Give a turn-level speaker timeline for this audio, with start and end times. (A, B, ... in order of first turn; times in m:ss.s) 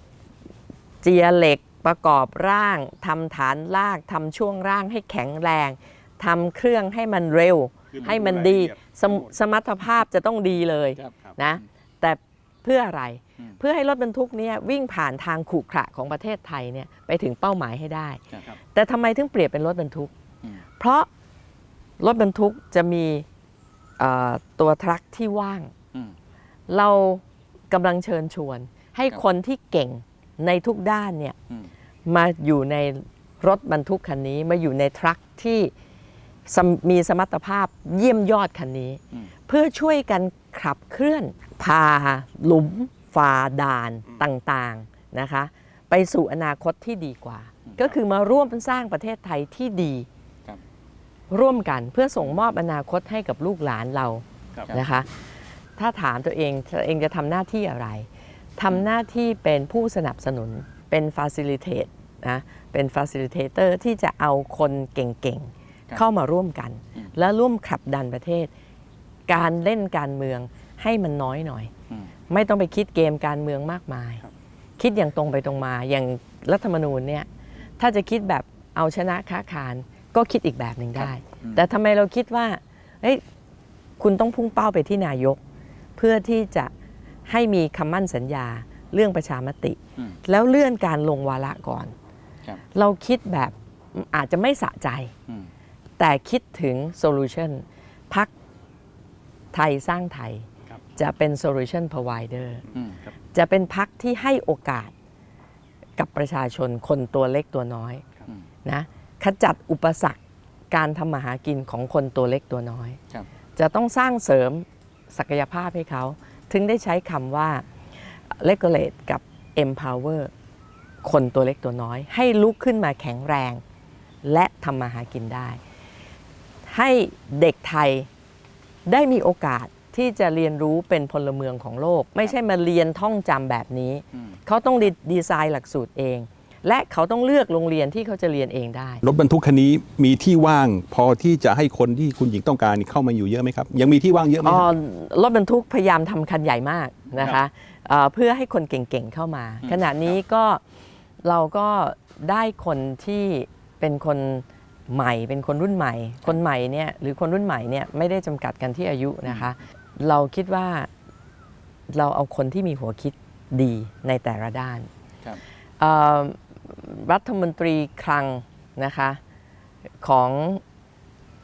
0:01.0-0:18.2 A
0:07.9-0:09.3 B
0:11.0-0:11.6 C
0:18.7-0:20.1 A
0:20.8-0:21.1 A
0:22.0-0:23.3 A
0:24.0-0:25.7 A
0:26.7-0:31.4 A
0:32.1-0:35.7 A
0:36.5-0:50.1 A
0:47.7-0:48.0 C
0:51.3-0:55.1 A
0:54.6-0:54.8 C
0:55.8-1:08.5 A
1:09.3-1:11.7 A
1:12.3-1:14.2 A
1:14.8-1:17.3 A
1:17.8-1:23.2 A
1:21.0-1:21.6 C
1:24.0-1:25.4 A
1:26.0-1:26.7 A
1:27.3-1:31.9 A
1:32.8-1:35.1 A
1:36.0-1:38.3 A
1:39.5-1:42.6 A
1:42.7-1:43.0 C
1:43.3-1:44.9 A
1:46.0-1:48.0 A
1:48.6-1:50.2 A
1:50.7-1:53.0 A
1:53.6-1:57.7 A
1:58.3-2:00.3 A
2:01.0-2:03.6 A
2:04.2-2:05.6 A
2:06.7-2:08.1 A
2:08.9-2:19.0 A
2:19.0-2:24.7 B
2:24.4-2:30.6 A
2:29.6-2:30.2 C
2:31.2-2:40.9 A
2:41.9-2:44.9 A
2:45.8-2:49.2 A
2:50.0-2:50.6 A